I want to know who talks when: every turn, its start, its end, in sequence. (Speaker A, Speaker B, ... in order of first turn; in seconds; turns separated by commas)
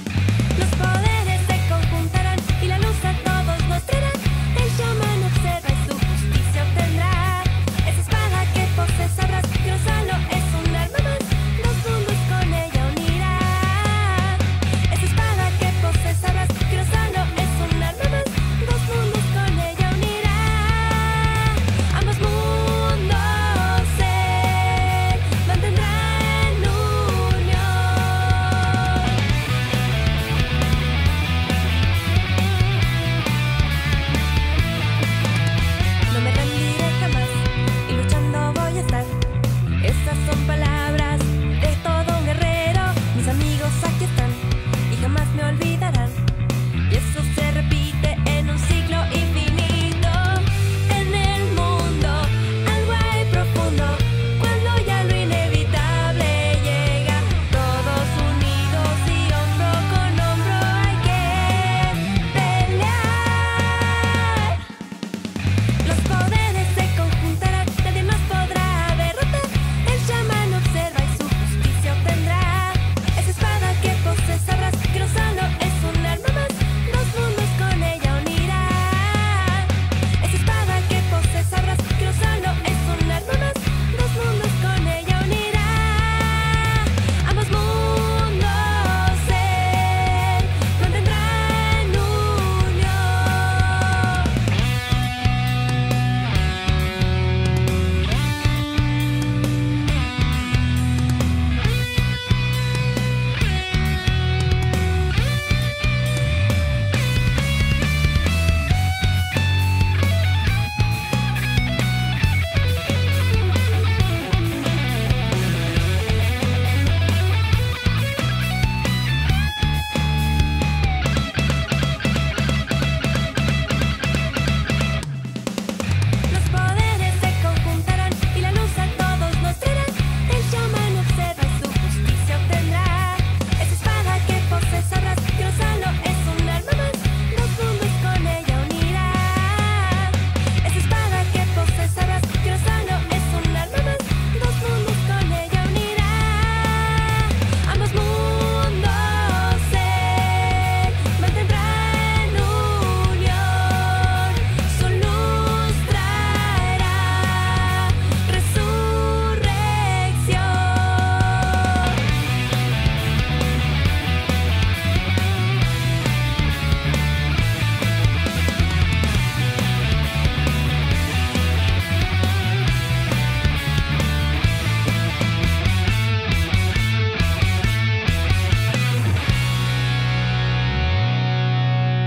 Speaker A: 0.6-29.2, Speaker A: 36.1-39.1, Speaker A: 39.8-46.2, Speaker A: 46.9-64.6, Speaker A: 65.8-94.3, Speaker A: 126.3-162.0